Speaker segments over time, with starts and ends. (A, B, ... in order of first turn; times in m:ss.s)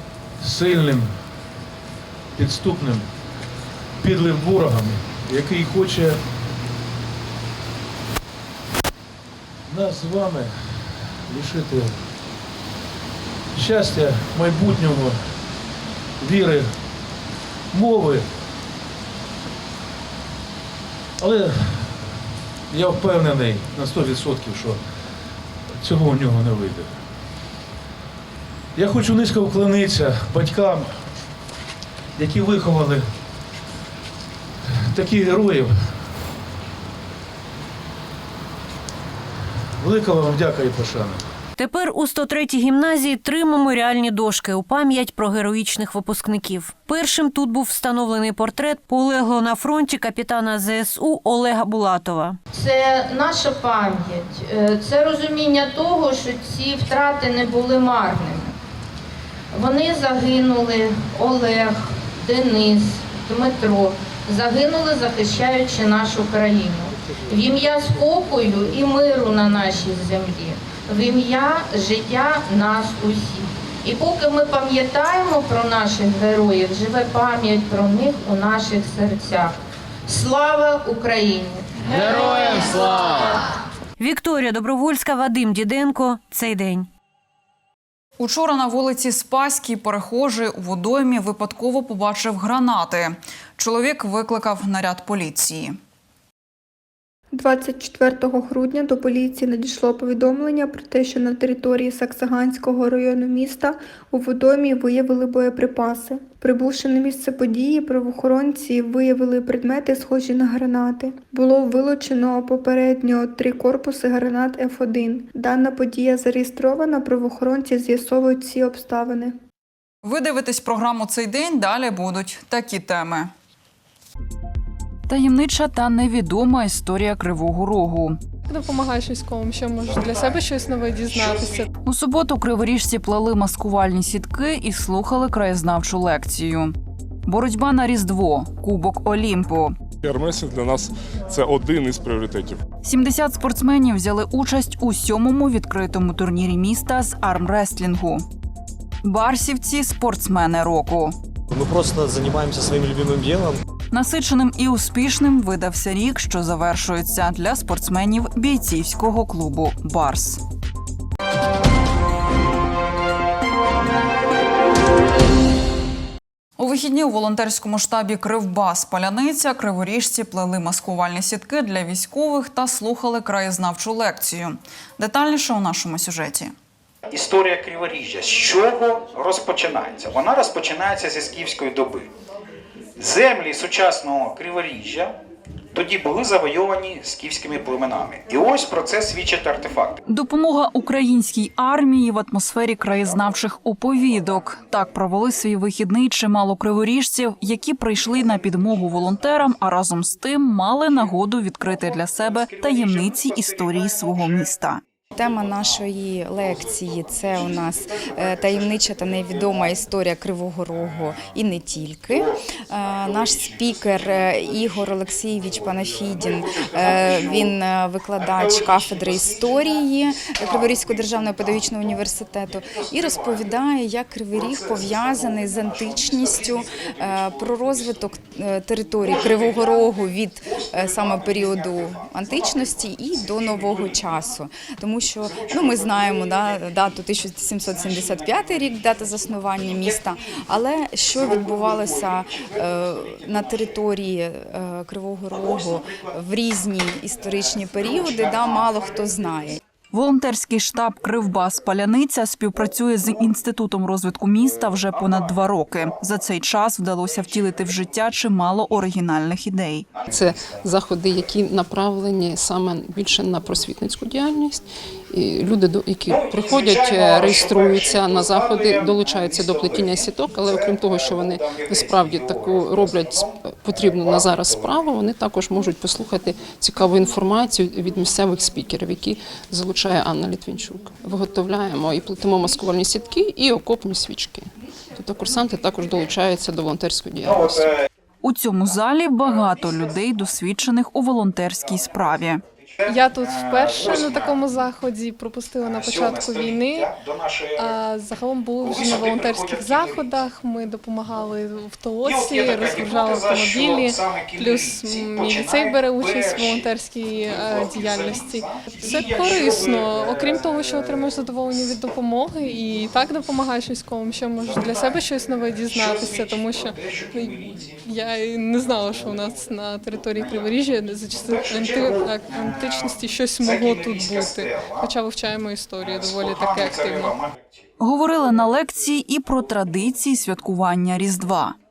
0:00.4-0:01.4 A
0:02.3-0:03.1 A
0:04.0-0:06.3 A
0:09.7-0:12.1 A
0:13.5-0:15.6 A
0:16.2-0:16.9 A
0:17.7-0:18.4 A
0:21.2-0:22.1 A
0:22.7-0:25.0 A
0:25.8-0:27.0 A
0:28.7-0:31.1 A
0:32.2-0:33.1 A
0:34.7-0:36.0 A
0:39.8-0:41.2 A
0:41.6-0:52.4 B
0:52.5-0:58.6 C
0:59.5-1:22.9 C
1:24.0-1:26.9 B
1:28.2-1:35.8 D
1:37.3-1:59.4 E
2:00.0-2:03.3 D
2:05.1-2:08.2 D
2:08.5-2:11.7 F
2:11.8-2:16.7 D
2:17.2-2:19.8 D
2:20.0-2:22.6 G
2:22.8-2:28.2 D
2:29.0-2:31.1 D
2:31.5-2:33.6 H
2:33.9-2:40.4 D
2:46.6-2:56.5 D
2:57.1-3:02.1 I
3:03.0-3:05.2 I
3:05.7-3:10.0 I
3:10.0-3:24.8 D
3:25.1-4:09.6 J
4:09.9-4:19.9 D
4:20.1-4:47.7 K
4:48.2-4:52.4 D
4:52.9-4:56.9 F
4:57.6-5:27.2 F
5:27.8-5:31.5 D